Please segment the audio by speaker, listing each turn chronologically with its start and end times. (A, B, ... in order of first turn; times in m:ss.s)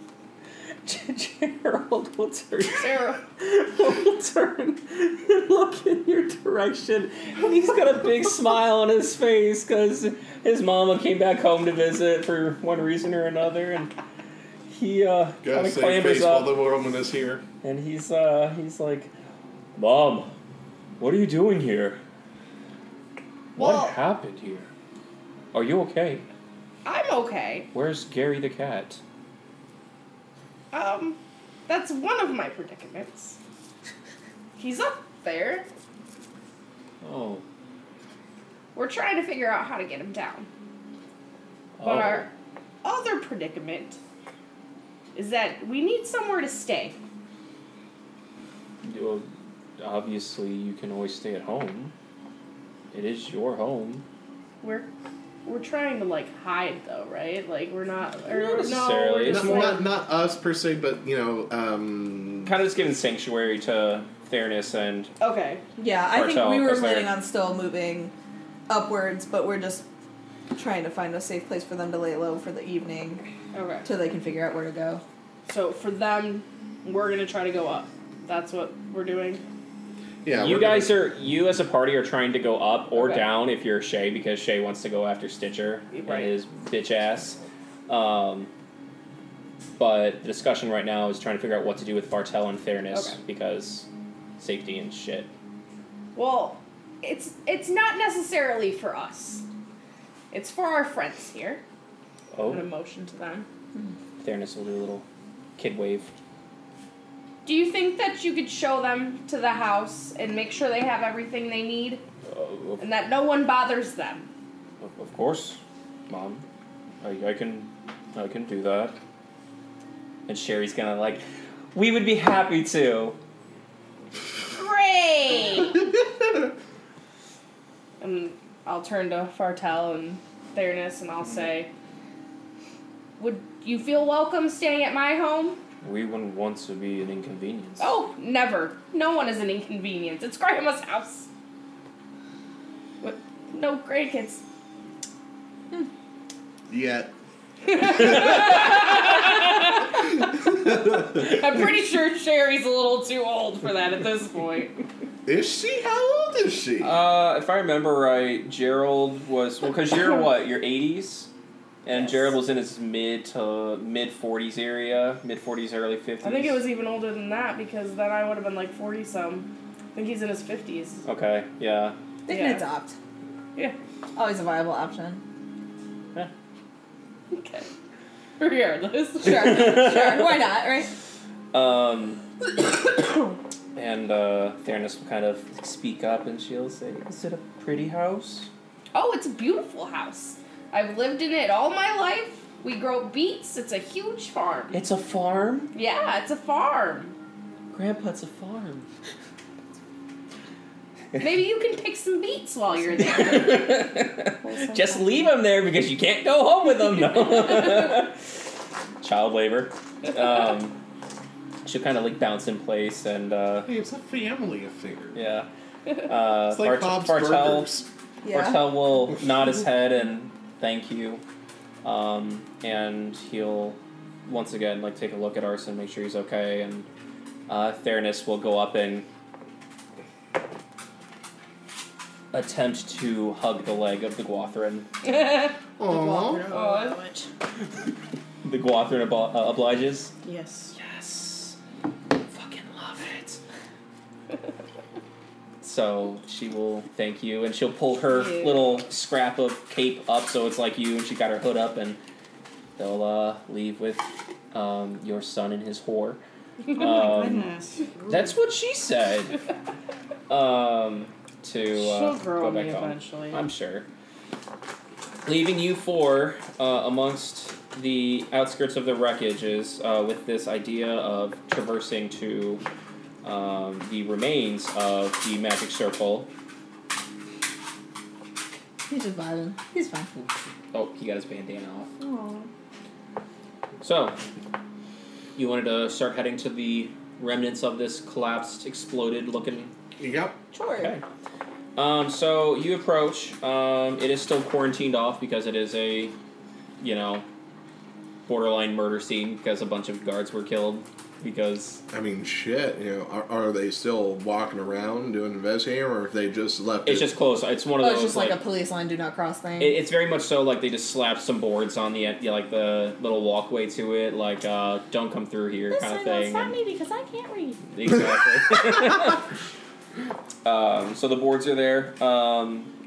0:00.8-0:13.9 A
0:02.7-0:03.2 B
0:14.7-0:16.6 A
0:15.4-0:17.4 C
0:17.6-0:19.1 A
0:19.7-0:20.3 A
0:21.0-0:22.0 A
0:23.6-0:24.7 A
0:23.6-0:23.9 B
0:25.5-0:26.2 A
0:26.8-0:27.7 B
0:27.7-0:29.0 A
0:30.7-0:33.4 B
0:34.6-0:35.7 B
0:37.0-0:37.4 A
0:38.7-0:40.5 B
0:41.8-0:42.3 A
0:41.8-0:42.3 B
0:42.8-0:44.0 B
0:45.1-0:47.0 B
0:48.8-0:49.3 A
0:49.8-0:51.9 A
0:52.9-0:54.0 A
0:54.6-0:54.9 B
0:55.4-0:59.8 B
0:58.3-0:59.8 A
0:59.2-1:02.5 C
1:02.4-1:05.1 A
1:05.2-1:05.6 B
1:05.8-1:08.1 D
1:06.1-1:07.2 A
1:08.7-1:09.8 D
1:10.5-1:13.2 D
1:13.5-1:13.8 B
1:13.8-1:15.0 D
1:15.5-1:19.4 B
1:20.2-1:21.0 C
1:20.3-1:28.5 A
1:22.9-1:23.3 B
1:25.9-1:26.4 B
1:29.8-1:33.9 A
1:32.9-1:33.2 B
1:34.4-1:35.3 A
1:36.1-1:39.4 B
1:40.3-1:41.6 B
1:42.3-1:42.7 A
1:42.5-1:43.4 B
1:44.2-1:45.0 A
1:45.6-1:46.1 A
1:47.4-1:52.0 B
1:52.3-1:52.8 A
1:52.8-1:54.2 B
1:54.8-1:56.4 A
1:57.0-1:58.9 A
2:00.3-2:01.2 A
2:01.7-2:03.2 A
2:04.5-2:05.8 B
2:08.0-2:11.7 B
2:11.2-2:11.5 A
2:13.2-2:15.6 B
2:15.8-2:17.9 A
2:17.8-2:21.3 B
2:23.0-2:24.4 B
2:26.7-2:27.1 C
2:27.7-2:34.8 B
2:27.7-2:28.9 C
2:35.2-2:37.0 C
2:36.8-2:41.3 A
2:41.8-2:46.6 A
2:41.9-2:42.2 B
2:46.2-2:51.0 B
2:51.0-2:52.0 A
2:52.3-2:53.0 D
2:52.3-2:52.6 B
2:54.2-2:55.2 D
2:57.3-2:57.7 B
2:58.4-2:59.4 B
2:59.2-3:00.9 D
2:59.2-3:00.5 A
3:01.5-3:02.2 A
3:03.7-3:08.5 A
3:08.9-3:14.8 B
3:14.7-3:15.7 A
3:15.7-3:17.1 B
3:17.7-3:18.9 A
3:21.2-3:23.9 B
3:23.0-3:28.2 A
3:24.4-3:25.3 D
3:29.0-3:30.8 A
3:31.6-3:33.7 A
3:33.6-3:35.2 C
3:35.1-3:37.7 A
3:36.5-3:37.9 C
3:38.2-3:38.7 D
3:38.3-3:41.2 A
3:41.8-3:46.9 A
3:47.5-3:49.1 A
3:52.3-3:54.9 A
3:55.0-3:55.6 B
3:55.8-3:56.5 C
3:55.8-3:57.3 E
3:56.5-3:57.1 B
3:58.4-4:00.1 A
4:00.2-4:00.7 E
4:00.7-4:01.6 A
4:02.3-4:03.4 A
4:05.6-4:12.0 A
4:08.1-4:08.8 E
4:12.8-4:17.5 A
4:16.6-4:18.4 E
4:18.1-4:19.4 A
4:20.3-4:23.9 A
4:21.7-4:23.4 E
4:25.2-4:32.6 A
4:33.2-4:36.3 A
4:38.9-4:40.1 D
4:40.7-4:41.9 A
4:42.0-4:42.5 D
4:43.8-4:44.2 A
4:45.4-4:49.7 A
4:50.0-4:50.4 C
4:50.5-4:50.9 D
4:50.8-4:51.0 A
4:51.8-4:56.1 A
4:56.8-4:57.2 A
4:58.2-5:01.8 A
5:01.9-5:07.1 C
5:06.8-5:08.4 A
5:07.8-5:09.8 D
5:09.6-5:16.6 A
5:15.7-5:17.6 D
5:17.7-5:19.3 A
5:20.4-5:22.7 A